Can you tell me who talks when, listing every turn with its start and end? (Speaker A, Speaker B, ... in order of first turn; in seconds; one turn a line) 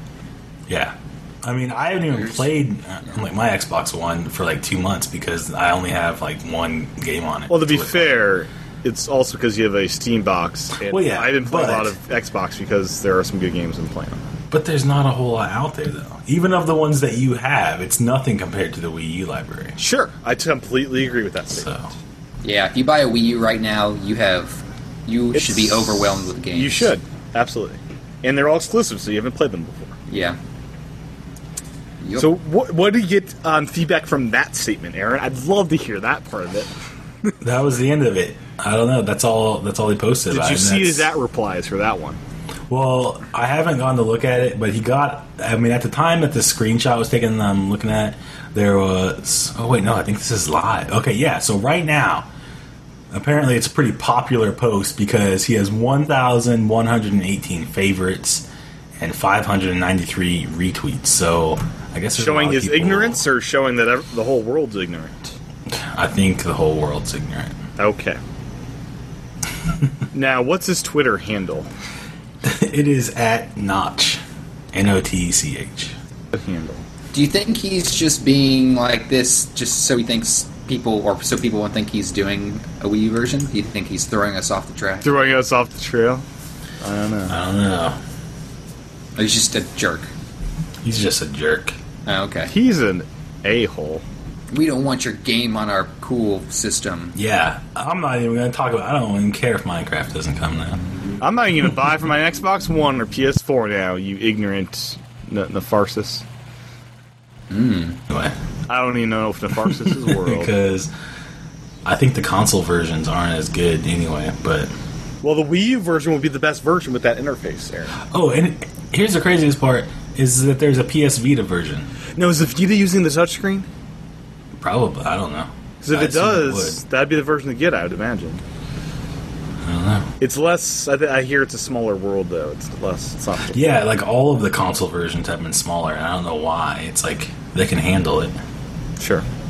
Speaker A: 0.7-8.2
Speaker B: 2.1-2.5
Speaker C: 7.5-14.2
Speaker A: 10.8-12.0
Speaker A: 14.5-19.8
Speaker C: 19.8-21.7
Speaker A: 21.6-21.9
Speaker B: 22.4-26.9
Speaker C: 25.3-30.0
Speaker B: 30.1-30.4
Speaker B: 32.0-32.3
Speaker C: 32.2-36.7
Speaker A: 37.4-41.1
Speaker C: 40.3-42.2
Speaker A: 42.7-52.3
Speaker A: 53.1-58.5
Speaker A: 59.0-63.2
Speaker C: 62.1-65.3
Speaker A: 65.7-67.6
Speaker C: 67.8-68.2
Speaker C: 70.1-71.7
Speaker A: 72.4-74.2
Speaker A: 74.7-76.0
Speaker C: 76.3-76.8
Speaker B: 77.1-85.3
Speaker C: 85.0-86.2
Speaker C: 86.8-87.4
Speaker A: 87.3-88.0
Speaker B: 89.2-90.1
Speaker A: 90.8-91.8
Speaker B: 92.1-92.5
Speaker C: 92.5-94.0
Speaker B: 94.5-97.2
Speaker A: 97.2-100.8
Speaker C: 101.2-106.2
Speaker B: 107.5-108.0
Speaker A: 108.1-108.4
Speaker C: 108.7-110.5
Speaker A: 109.8-110.9
Speaker A: 111.8-114.7
Speaker C: 115.2-118.0
Speaker A: 118.1-121.9
Speaker C: 122.2-123.7
Speaker A: 124.6-126.8
Speaker C: 125.8-128.4
Speaker A: 129.6-130.1
Speaker C: 130.2-133.7
Speaker A: 133.5-138.4
Speaker C: 139.0-139.2